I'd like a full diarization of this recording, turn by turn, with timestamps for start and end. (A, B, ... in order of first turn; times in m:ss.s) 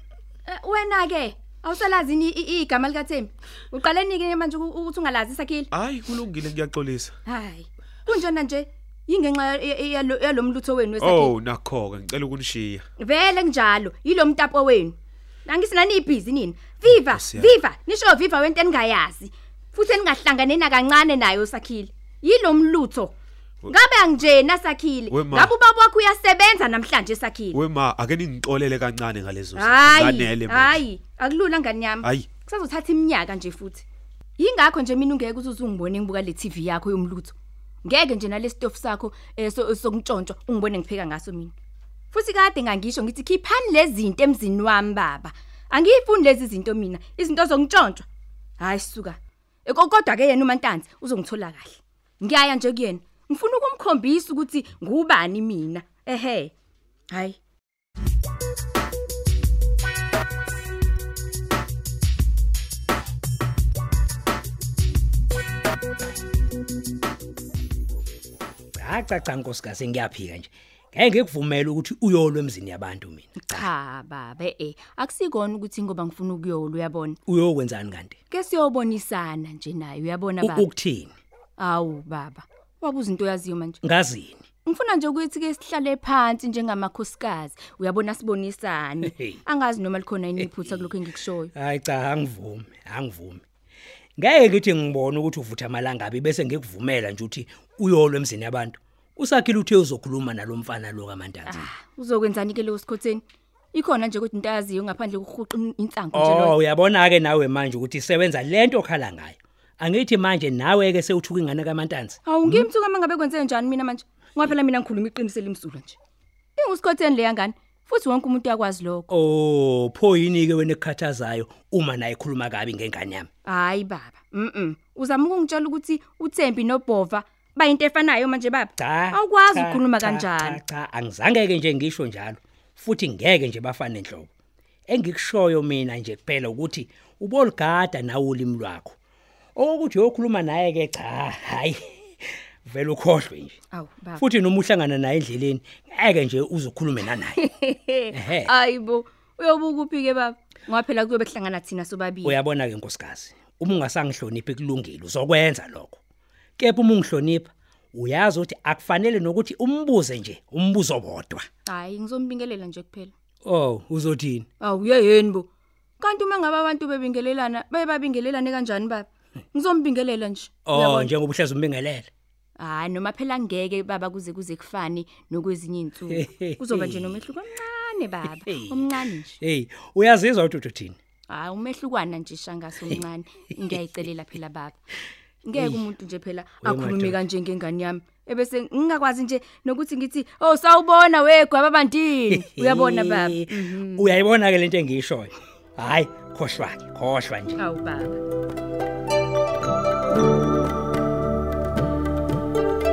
0:00.4-0:05.7 A
0:05.7-0:07.1 B
0:07.3-0:11.3 A
0:11.0-0:12.8 B
0:13.0-0:23.2 A
0:16.9-0:17.6 B
0:23.7-0:27.6 A
0:25.1-0:25.6 B
0:27.5-0:30.8 B
0:29.6-0:33.8 A
0:32.0-0:32.3 B
0:34.4-0:41.5 A
0:42.1-0:48.1 A
0:48.6-0:56.5 A
0:57.1-0:57.4 A
1:08.8-1:13.7 C
1:13.4-1:17.2 A
1:17.3-1:18.2 C
1:18.3-1:20.7 A
1:20.4-1:21.1 C
1:21.6-1:23.8 A
1:23.8-1:24.4 C
1:24.7-1:31.5 A
1:29.0-1:29.4 C
1:30.4-1:30.9 C
1:31.5-1:33.4 C
1:34.2-1:41.7 C
1:41.5-1:46.6 A
1:46.1-1:52.7 C
1:52.3-1:56.0 A
1:56.6-1:59.1 A
1:59.1-2:03.3 C
2:03.4-2:10.6 A
2:08.8-2:14.3 C
2:14.9-2:19.0 C
2:19.6-2:23.6 C
2:23.7-2:24.2 A
2:24.2-2:27.4 C
2:27.4-2:32.4 A
2:28.1-2:28.5 C
2:32.2-2:36.0 C
2:36.6-2:41.5 C
2:41.6-2:43.1 A
2:43.4-2:44.5 C
2:44.6-2:45.5 A
2:46.0-2:51.1 A
2:50.7-2:52.1 C
2:52.6-2:59.4 A
2:56.1-2:57.3 C
2:58.4-3:01.0 C
3:01.3-3:04.8 A
3:05.4-3:14.2 A
3:05.6-3:05.8 C
3:06.6-3:07.2 C
3:12.3-3:17.6 C
3:17.6-3:18.2 A